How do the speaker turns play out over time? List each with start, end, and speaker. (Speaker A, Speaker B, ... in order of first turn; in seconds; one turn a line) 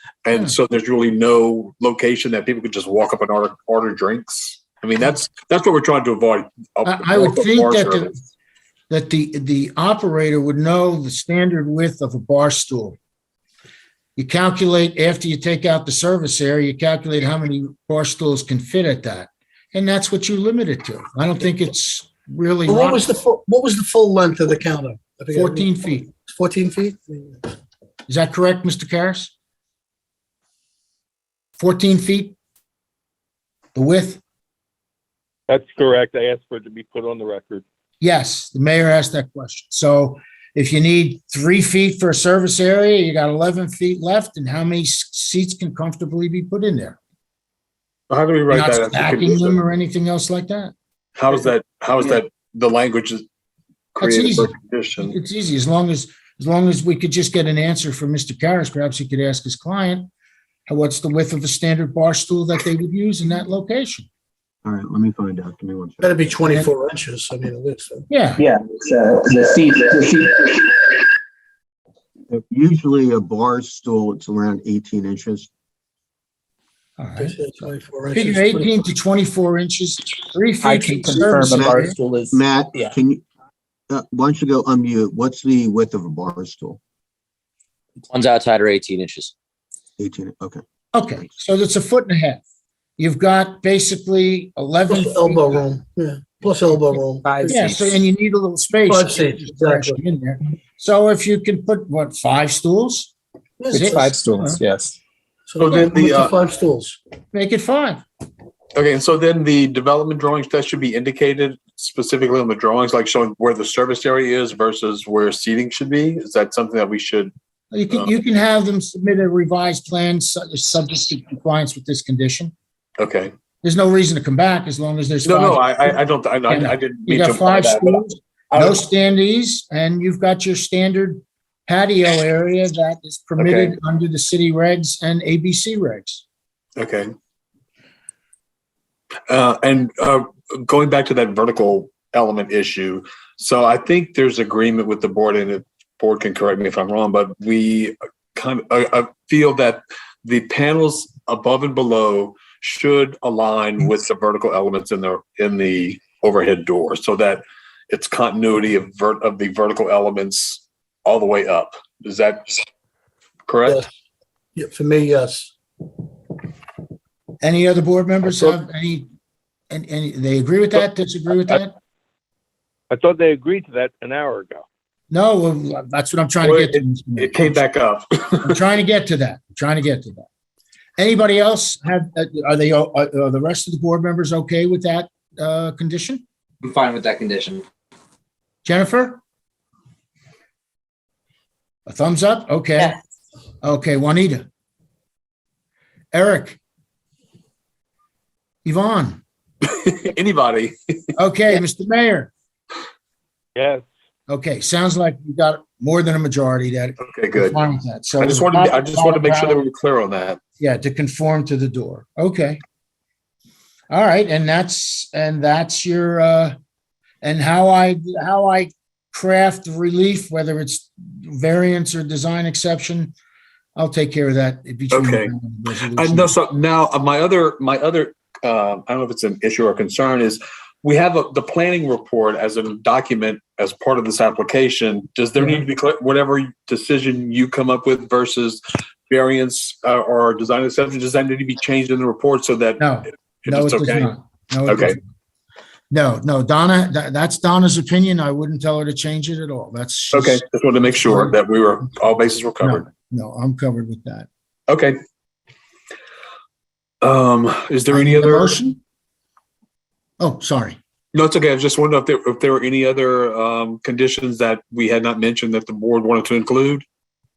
Speaker A: 0.2-8.2
Speaker B: 6.8-8.2
Speaker B: 8.9-13.0
Speaker B: 14.2-23.0
Speaker C: 22.7-27.5
Speaker B: 25.3-26.1
Speaker B: 28.1-29.3
Speaker B: 31.6-32.4
Speaker B: 33.8-34.2
Speaker D: 35.5-37.6
Speaker B: 38.0-47.0
Speaker A: 48.1-49.6
Speaker B: 48.5-50.7
Speaker A: 51.2-53.2
Speaker A: 54.0-55.2
Speaker B: 54.0-60.1
Speaker B: 60.7-64.1
Speaker E: 64.7-66.2
Speaker C: 66.0-68.1
Speaker B: 68.1-68.4
Speaker F: 68.4-70.8
Speaker E: 72.3-75.5
Speaker B: 77.0-77.4
Speaker C: 77.2-78.8
Speaker B: 78.1-82.0
Speaker F: 80.6-83.0
Speaker E: 81.3-83.2
Speaker E: 83.9-86.8
Speaker G: 88.1-89.3
Speaker E: 90.0-90.6
Speaker B: 90.9-92.4
Speaker B: 93.0-95.6
Speaker C: 94.9-97.6
Speaker G: 97.3-97.9
Speaker F: 97.3-98.0
Speaker B: 97.5-103.1
Speaker C: 98.9-100.0
Speaker C: 103.6-104.2
Speaker F: 103.7-105.0
Speaker B: 103.7-104.6
Speaker C: 105.5-107.0
Speaker A: 105.6-106.3
Speaker B: 107.3-108.0
Speaker A: 108.8-117.3
Speaker B: 117.7-122.5
Speaker A: 123.0-123.3
Speaker B: 123.6-136.2
Speaker A: 125.2-128.0
Speaker A: 128.5-128.8
Speaker A: 133.4-133.8
Speaker A: 136.8-137.1
Speaker A: 139.3-162.5
Speaker A: 163.5-163.8
Speaker C: 164.6-165.5
Speaker B: 167.4-169.1
Speaker B: 169.7-171.7
Speaker D: 172.9-174.7
Speaker B: 175.1-177.6
Speaker A: 176.4-178.6
Speaker B: 178.4-180.3
Speaker B: 181.0-186.2
Speaker G: 186.6-187.6
Speaker B: 188.6-189.2
Speaker B: 191.9-193.0
Speaker B: 193.6-194.5
Speaker B: 196.1-196.6
Speaker B: 198.7-199.2
Speaker A: 199.6-201.0
Speaker B: 201.2-202.3
Speaker D: 203.6-203.8
Speaker B: 204.3-209.6
Speaker A: 207.0-207.6
Speaker A: 208.2-210.4
Speaker B: 210.6-212.6
Speaker B: 213.9-216.6
Speaker B: 217.2-223.1
Speaker B: 223.8-226.4
Speaker A: 224.9-225.3
Speaker A: 225.9-244.1
Speaker B: 242.8-245.0
Speaker A: 244.7-245.0
Speaker B: 245.9-251.4
Speaker A: 250.1-252.9
Speaker B: 252.6-254.3
Speaker A: 254.7-255.0
Speaker A: 257.0-258.6
Speaker B: 257.9-258.8
Speaker B: 260.2-260.8
Speaker A: 261.1-266.9